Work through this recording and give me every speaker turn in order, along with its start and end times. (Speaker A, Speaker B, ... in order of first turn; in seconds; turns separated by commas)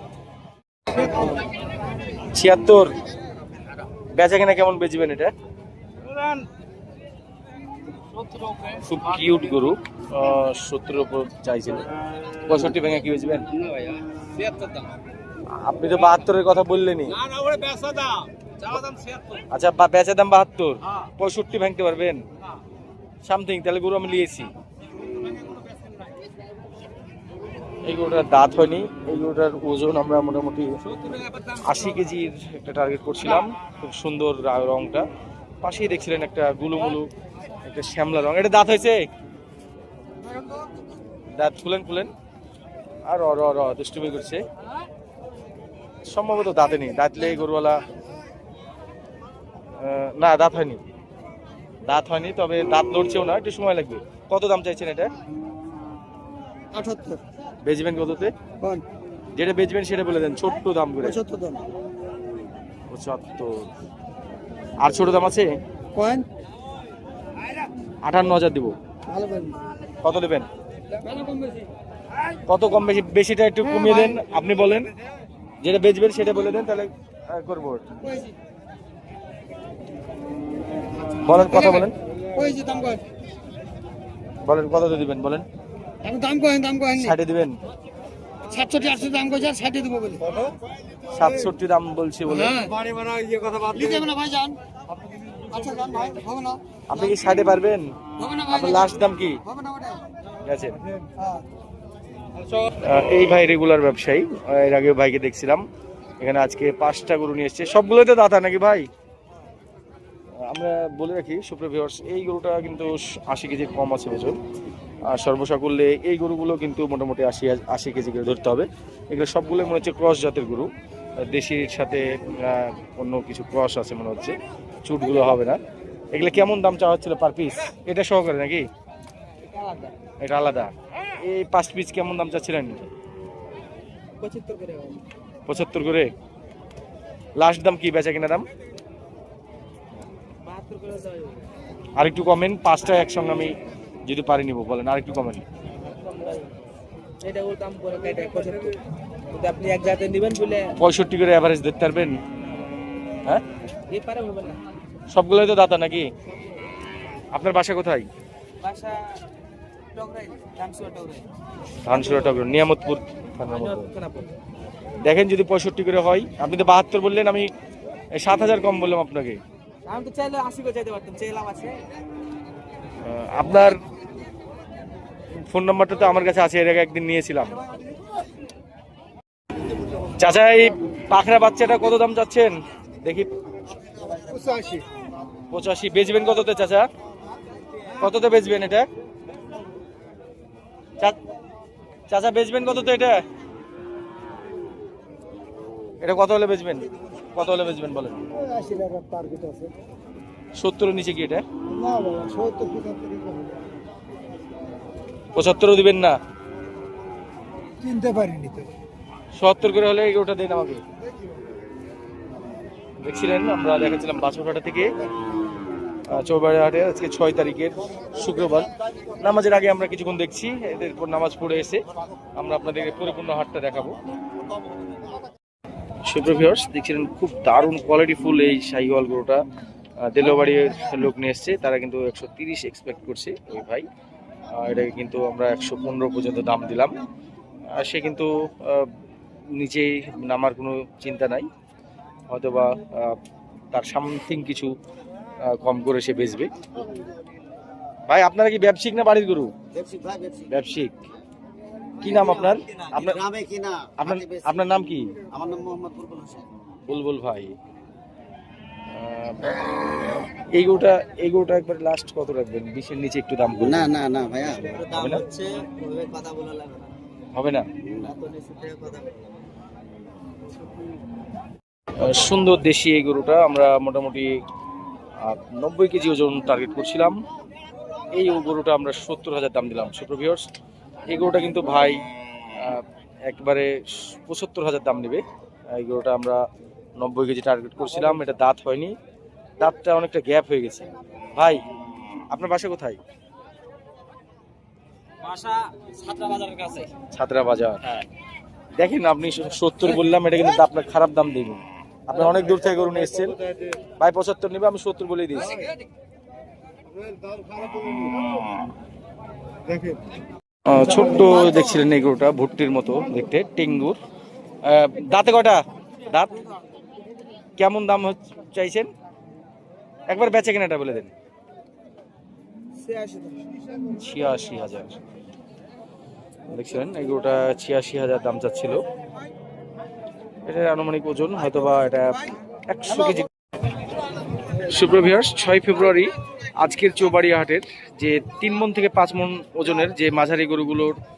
Speaker A: 2.3-3.0, Speaker A: 4.1-5.3, Speaker B: 6.1-6.4, Speaker B: 8.2-8.5, Speaker A: 8.7-11.9, Speaker A: 12.5-13.4, Speaker B: 13.8-14.8, Speaker A: 15.5-17.2, Speaker B: 17.3-18.2, Speaker B: 18.9-19.2, Speaker A: 19.5-22.2, Speaker A: 23.2-24.5, Speaker A: 27.8-30.7, Speaker A: 31.5-35.0, Speaker A: 35.6-37.1, Speaker A: 37.6-39.0, Speaker A: 41.3-42.1, Speaker A: 43.1-44.4, Speaker A: 46.1-47.8, Speaker A: 49.8-50.8, Speaker A: 51.8-55.1, Speaker C: 56.7-57.2, Speaker A: 57.6-58.3, Speaker A: 59.3-61.2, Speaker C: 61.0-61.6, Speaker A: 62.9-63.6, Speaker A: 64.8-65.5, Speaker C: 66.0-66.2, Speaker A: 68.0-68.7, Speaker C: 69.1-69.6, Speaker A: 70.0-70.5, Speaker A: 72.5-74.9, Speaker A: 75.6-77.8, Speaker A: 81.2-82.0, Speaker C: 82.3-83.0, Speaker A: 84.4-85.5, Speaker C: 86.0-87.1, Speaker A: 86.9-87.6, Speaker C: 88.5-90.5, Speaker A: 91.1-92.7, Speaker C: 92.9-94.6, Speaker C: 95.5-96.6, Speaker A: 96.9-97.9, Speaker C: 98.2-98.5, Speaker A: 98.4-99.4, Speaker C: 99.5-100.0, Speaker A: 100.4-100.8, Speaker A: 102.8-105.6, Speaker A: 106.2-108.9, Speaker A: 110.4-114.4, Speaker A: 115.1-125.6, Speaker A: 126.1-128.7, Speaker B: 129.5-129.9, Speaker A: 130.2-132.9, Speaker B: 134.2-135.0, Speaker A: 135.5-136.1, Speaker A: 137.4-138.5, Speaker B: 140.4-141.4, Speaker A: 141.9-143.5, Speaker A: 144.1-145.4, Speaker B: 145.9-146.6, Speaker B: 147.2-148.8, Speaker B: 149.3-150.7, Speaker A: 150.8-152.2, Speaker B: 153.9-154.6, Speaker A: 155.1-156.1, Speaker A: 157.3-158.1, Speaker B: 158.6-159.2, Speaker B: 159.9-161.3, Speaker A: 161.8-163.9, Speaker B: 161.9-162.4, Speaker B: 163.4-164.3, Speaker A: 165.0-167.5, Speaker A: 168.1-169.4, Speaker B: 169.8-171.8, Speaker A: 173.0-173.8, Speaker A: 175.4-177.6, Speaker A: 180.2-183.3, Speaker C: 184.2-184.8, Speaker A: 185.5-186.9, Speaker A: 188.0-188.8, Speaker A: 192.1-193.2, Speaker A: 196.0-198.2, Speaker C: 198.4-199.7, Speaker A: 200.6-201.4, Speaker C: 201.7-203.6, Speaker A: 205.3-206.2, Speaker C: 207.8-208.7, Speaker A: 209.3-210.8, Speaker A: 213.0-214.9, Speaker A: 216.1-221.8, Speaker A: 222.4-224.0, Speaker A: 226.0-229.4, Speaker A: 230.0-233.9, Speaker A: 234.5-236.9, Speaker A: 237.7-238.9, Speaker A: 239.5-241.5, Speaker A: 242.3-243.2, Speaker A: 243.7-244.7, Speaker A: 245.4-246.5, Speaker A: 248.1-249.5, Speaker C: 249.7-250.4, Speaker A: 250.5-250.9, Speaker A: 252.0-253.2, Speaker C: 252.1-254.5, Speaker A: 254.0-255.1, Speaker C: 255.3-256.4, Speaker A: 256.8-257.5, Speaker A: 258.9-263.9, Speaker C: 263.6-266.7, Speaker A: 264.9-265.2, Speaker B: 265.9-266.9, Speaker A: 267.3-267.7, Speaker C: 268.0-269.1, Speaker B: 268.1-269.1, Speaker A: 272.0-274.4, Speaker A: 275.2-277.1, Speaker A: 278.1-280.4, Speaker A: 281.1-282.0, Speaker A: 282.6-286.4, Speaker A: 287.0-288.9, Speaker A: 289.6-291.6, Speaker A: 292.3-293.0, Speaker B: 295.2-296.9, Speaker A: 297.1-297.9, Speaker A: 298.8-303.4, Speaker A: 304.0-305.6, Speaker C: 307.5-308.3, Speaker A: 310.6-314.0, Speaker A: 314.6-316.4, Speaker A: 317.6-318.9, Speaker A: 320.1-321.1, Speaker B: 322.8-323.4, Speaker A: 324.0-325.0, Speaker A: 326.5-328.8, Speaker A: 330.4-333.3, Speaker A: 334.6-340.9